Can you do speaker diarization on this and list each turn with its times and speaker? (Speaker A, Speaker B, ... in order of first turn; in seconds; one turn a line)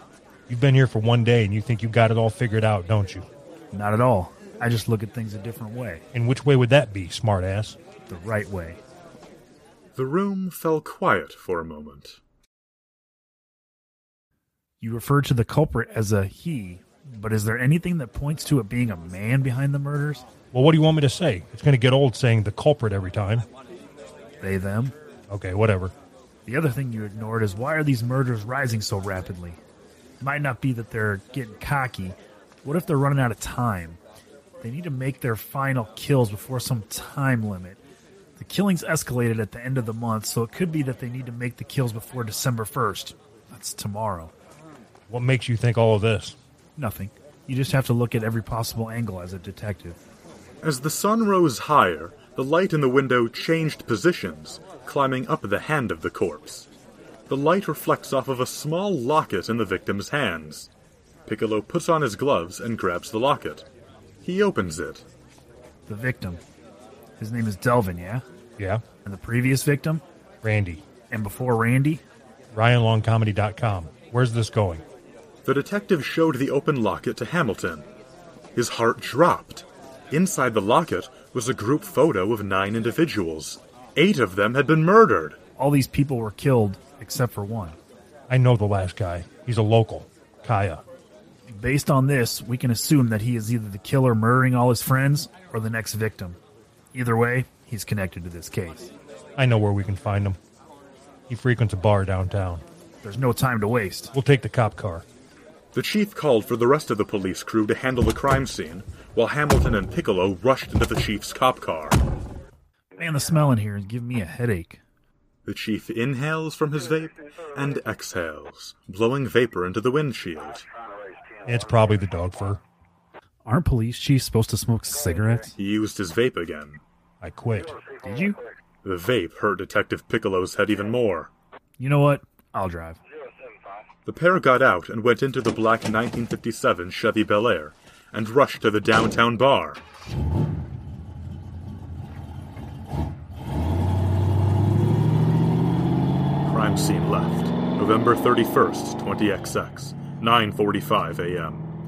Speaker A: 0.5-3.3
Speaker B: 3.7-6.0
Speaker A: 6.1-7.8
Speaker B: 8.1-8.8
Speaker C: 9.9-12.2
Speaker B: 14.8-20.2
Speaker A: 20.5-23.5
Speaker B: 24.4-24.9
Speaker A: 25.3-25.9
Speaker B: 26.5-29.6
Speaker B: 30.2-34.0
Speaker B: 34.6-37.8
Speaker B: 38.4-44.3
Speaker A: 45.1-46.4
Speaker B: 46.8-50.0
Speaker C: 50.6-56.7
Speaker C: 57.3-60.7
Speaker C: 61.3-63.7
Speaker C: 64.2-65.0
Speaker B: 65.9-66.4
Speaker B: 67.2-68.2
Speaker B: 69.0-70.0
Speaker A: 70.4-70.8
Speaker B: 71.1-72.0
Speaker A: 72.5-74.8
Speaker C: 75.5-77.9
Speaker C: 78.5-85.4
Speaker B: 85.6-87.8
Speaker A: 88.3-90.8
Speaker B: 91.5-96.4
Speaker B: 96.9-98.9
Speaker A: 99.4-100.4
Speaker A: 101.3-102.7
Speaker B: 103.0-104.1
Speaker A: 104.1-105.0
Speaker C: 105.7-112.0
Speaker B: 113.0-114.8
Speaker C: 115.5-120.7
Speaker A: 121.5-122.6
Speaker B: 123.5-125.5
Speaker C: 125.6-126.8
Speaker A: 127.2-127.8
Speaker B: 128.0-128.4
Speaker C: 128.8-131.3
Speaker B: 131.8-133.0
Speaker C: 134.1-139.8
Speaker C: 146.4-151.7